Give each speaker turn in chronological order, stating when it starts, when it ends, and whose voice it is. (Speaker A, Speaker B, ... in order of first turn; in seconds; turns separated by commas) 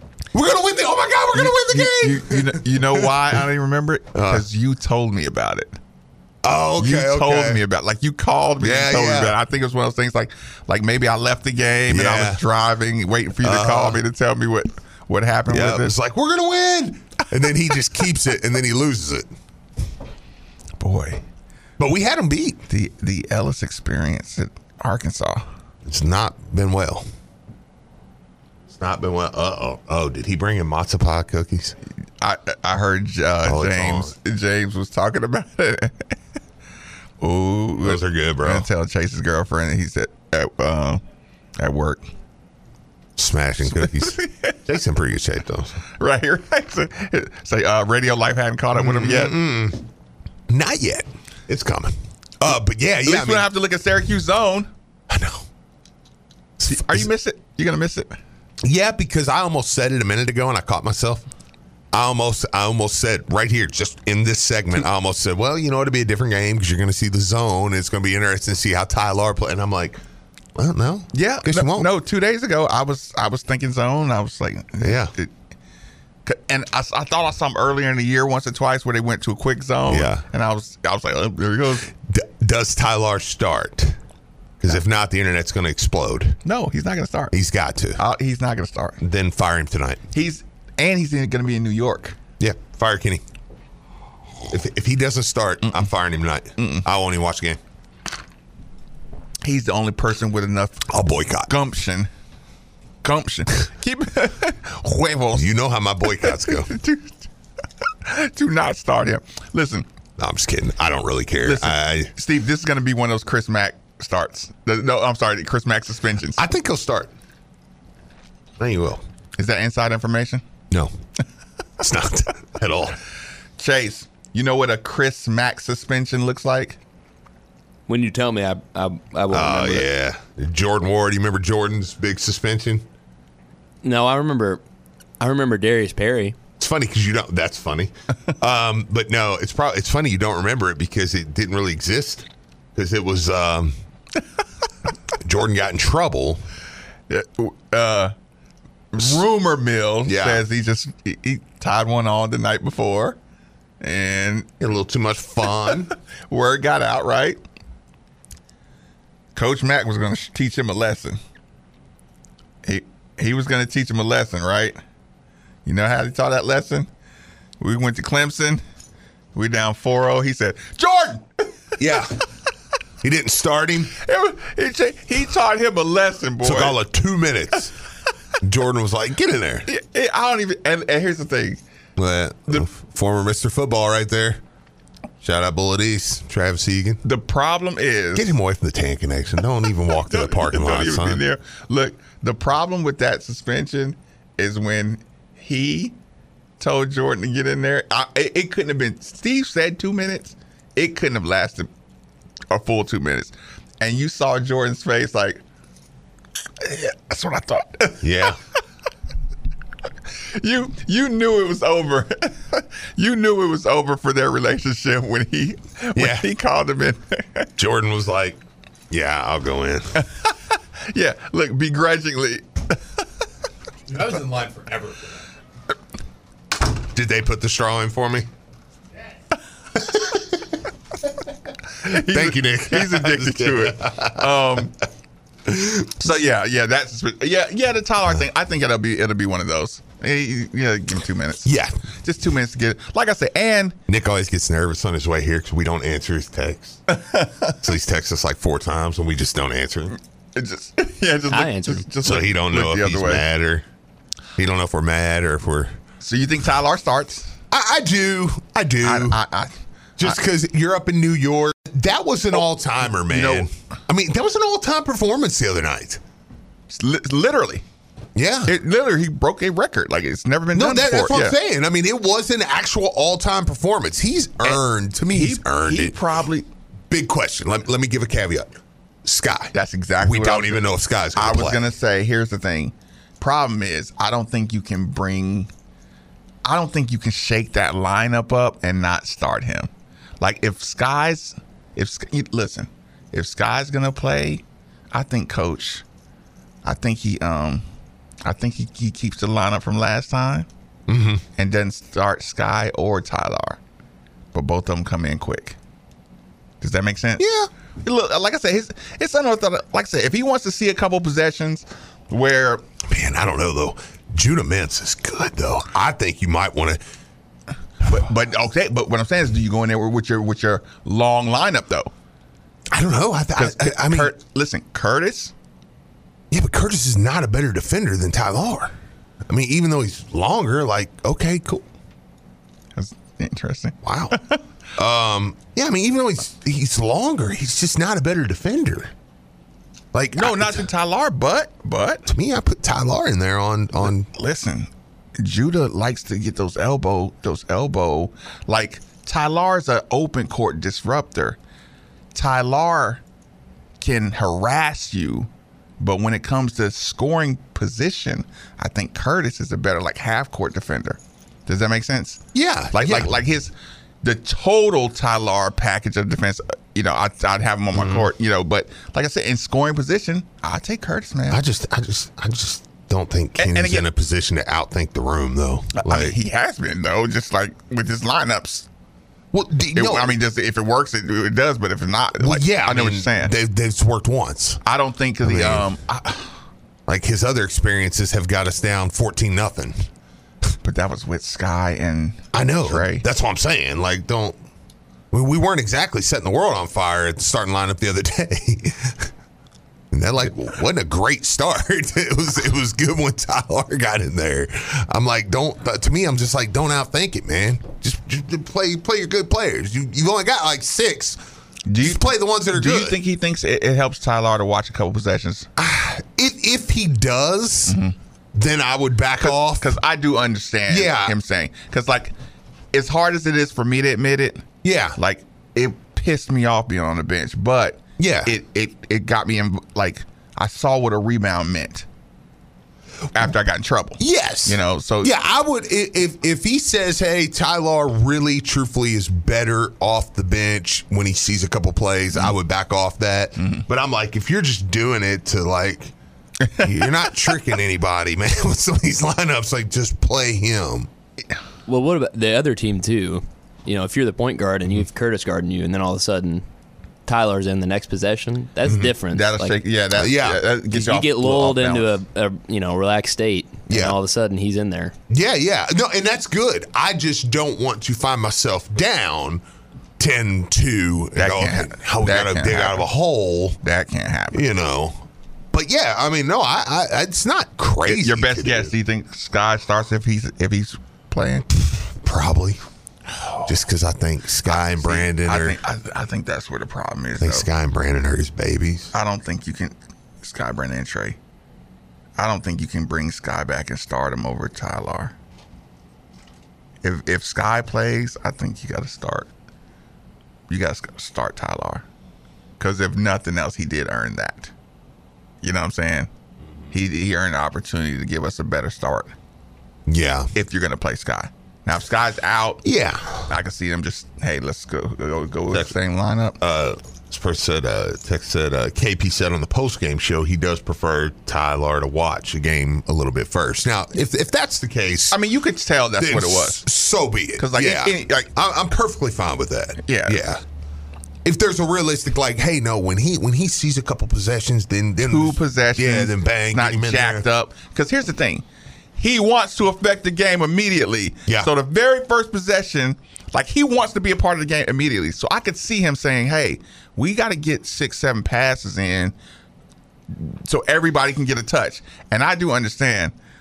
Speaker A: 0.3-3.4, Speaker B: 1.3-5.8, Speaker A: 4.1-4.4, Speaker A: 6.4-7.6, Speaker B: 6.8-15.9, Speaker A: 8.6-9.4, Speaker A: 11.9-12.4, Speaker A: 13.4-14.0, Speaker A: 15.5-19.3, Speaker B: 20.8-21.2, Speaker A: 21.8-22.6, Speaker B: 22.7-25.4, Speaker A: 25.9-27.1, Speaker A: 28.7-31.8, Speaker B: 32.2-36.0, Speaker A: 33.4-34.1, Speaker B: 37.2-41.0, Speaker A: 37.8-38.7, Speaker B: 41.6-42.0, Speaker A: 43.1-45.8, Speaker B: 43.8-44.5, Speaker B: 46.0-49.4, Speaker A: 48.7-49.8, Speaker A: 50.5-53.5, Speaker B: 53.0-54.7, Speaker A: 55.1-55.5, Speaker A: 56.6-57.1, Speaker B: 56.6-58.1, Speaker A: 58.6-61.2, Speaker A: 61.9-70.0, Speaker A: 70.5-71.9, Speaker B: 71.1-75.3, Speaker A: 74.8-75.1, Speaker B: 76.2-81.9, Speaker A: 79.9-80.2, Speaker A: 82.0-84.0, Speaker A: 84.6-86.4, Speaker B: 86.4-87.3, Speaker A: 87.3-88.0, Speaker B: 88.0-89.0, Speaker A: 89.0-90.0, Speaker B: 90.1-92.2, Speaker A: 92.4-93.2, Speaker A: 94.5-97.6, Speaker B: 96.6-96.8, Speaker B: 99.4-100.8, Speaker A: 100.9-101.5, Speaker B: 101.5-102.1, Speaker B: 103.0-105.5, Speaker A: 105.3-106.7, Speaker B: 106.1-107.1, Speaker B: 108.0-109.8, Speaker A: 110.2-112.1, Speaker B: 111.4-116.4, Speaker A: 116.4-117.1, Speaker A: 118.6-119.0, Speaker B: 119.4-120.4, Speaker A: 121.8-123.0, Speaker B: 123.6-126.8, Speaker C: 127.9-129.9, Speaker A: 129.3-132.8, Speaker C: 133.8-134.6, Speaker C: 135.2-136.3, Speaker A: 136.6-143.7, Speaker A: 145.2-146.4, Speaker B: 147.1-148.1, Speaker B: 148.9-153.2, Speaker A: 150.1-150.4, Speaker B: 153.8-154.5, Speaker A: 154.6-155.9, Speaker B: 156.3-157.4, Speaker B: 159.3-161.2, Speaker B: 162.6-164.8, Speaker B: 165.6-166.9, Speaker B: 167.6-168.6, Speaker B: 169.3-171.2, Speaker A: 171.8-172.2, Speaker A: 173.0-173.9, Speaker B: 173.9-176.8, Speaker A: 176.4-177.7, Speaker A: 178.4-179.7, Speaker B: 179.7-181.6, Speaker A: 182.0-184.4, Speaker A: 185.2-187.0, Speaker B: 187.0-188.3, Speaker A: 188.1-191.2, Speaker B: 190.0-195.9, Speaker B: 196.6-201.7, Speaker B: 202.5-205.4, Speaker B: 206.6-208.1, Speaker A: 208.0-208.4, Speaker B: 210.3-217.5, Speaker A: 215.9-216.3, Speaker A: 217.6-220.0, Speaker B: 220.0-220.3, Speaker B: 220.9-222.7, Speaker A: 223.9-225.2, Speaker A: 226.8-228.3, Speaker A: 229.8-230.2, Speaker B: 231.8-234.7, Speaker A: 231.8-234.6, Speaker A: 235.5-235.9, Speaker B: 236.0-241.4, Speaker A: 241.4-241.8, Speaker B: 242.0-243.8, Speaker A: 243.9-246.8, Speaker B: 246.9-247.5, Speaker A: 247.6-249.9, Speaker B: 250.3-253.2, Speaker C: 251.3-251.8, Speaker A: 252.0-253.6, Speaker A: 254.4-255.7, Speaker B: 256.0-257.3, Speaker A: 257.5-259.2, Speaker B: 258.8-260.2, Speaker A: 260.0-266.0, Speaker B: 263.0-263.5, Speaker B: 266.7-267.6, Speaker A: 268.1-268.5, Speaker B: 268.5-271.4, Speaker A: 270.5-276.0, Speaker B: 274.4-276.5, Speaker A: 276.9-278.5, Speaker A: 279.0-281.6, Speaker B: 279.5-285.5, Speaker B: 286.4-289.7, Speaker B: 290.2-295.8, Speaker B: 296.6-297.6, Speaker B: 298.2-300.5, Speaker A: 300.9-301.2, Speaker B: 301.4-303.6, Speaker B: 304.3-305.6, Speaker B: 306.6-307.2, Speaker A: 307.2-307.5, Speaker B: 307.8-312.6, Speaker A: 312.9-316.8, Speaker B: 317.8-321.9, Speaker A: 322.7-324.1, Speaker B: 323.4-325.3, Speaker A: 326.3-328.7, Speaker A: 329.3-331.6, Speaker B: 332.8-334.4, Speaker A: 333.8-334.2, Speaker A: 334.8-338.9, Speaker A: 339.9-340.7, Speaker B: 340.2-342.1, Speaker A: 342.1-344.1, Speaker B: 344.1-351.4, Speaker B: 352.1-353.0, Speaker B: 353.8-355.3, Speaker B: 355.8-363.5, Speaker A: 362.3-363.1, Speaker B: 364.0-371.4, Speaker A: 367.7-368.1, Speaker A: 371.3-376.1, Speaker B: 373.4-373.9, Speaker B: 375.7-378.7, Speaker A: 379.3-380.1, Speaker B: 379.7-383.3, Speaker A: 382.2-384.6, Speaker B: 384.6-386.3, Speaker A: 385.2-385.7, Speaker A: 386.9-389.9, Speaker B: 390.6-393.0, Speaker A: 392.3-394.4, Speaker A: 395.1-399.1, Speaker A: 399.9-411.2, Speaker B: 411.7-415.5, Speaker A: 411.8-413.0, Speaker A: 415.6-417.8, Speaker B: 417.7-417.9, Speaker A: 418.3-419.8, Speaker B: 419.2-422.1, Speaker A: 420.7-421.1, Speaker B: 422.7-424.4, Speaker A: 424.6-425.0, Speaker B: 425.0-431.9, Speaker A: 428.0-428.3, Speaker B: 433.1-435.1, Speaker A: 434.0-445.9, Speaker B: 443.4-443.6, Speaker A: 446.6-450.9, Speaker C: 451.7-456.4, Speaker C: 457.1-459.6, Speaker A: 458.6-458.9, Speaker B: 459.1-461.9, Speaker A: 459.9-460.4, Speaker C: 460.7-464.9, Speaker A: 463.7-464.0, Speaker A: 465.1-469.4, Speaker A: 470.0-473.6, Speaker B: 471.2-472.9, Speaker B: 473.6-474.5, Speaker A: 474.3-478.7, Speaker B: 477.8-481.5, Speaker A: 481.9-482.6, Speaker A: 483.4-485.6, Speaker B: 484.4-487.5, Speaker A: 487.2-488.9, Speaker B: 488.9-491.2, Speaker B: 492.2-495.1, Speaker B: 496.8-499.3, Speaker B: 500.5-501.8, Speaker B: 502.6-504.5, Speaker B: 505.4-506.1, Speaker B: 506.7-509.1, Speaker A: 509.9-510.3, Speaker B: 510.3-512.6, Speaker A: 512.6-513.3, Speaker B: 513.3-516.4, Speaker A: 516.4-525.2, Speaker B: 525.1-526.6, Speaker A: 526.0-530.4, Speaker B: 527.4-528.3, Speaker B: 529.8-530.2, Speaker A: 531.2-537.2, Speaker B: 535.0-549.1, Speaker A: 541.3-541.5, Speaker B: 550.1-553.1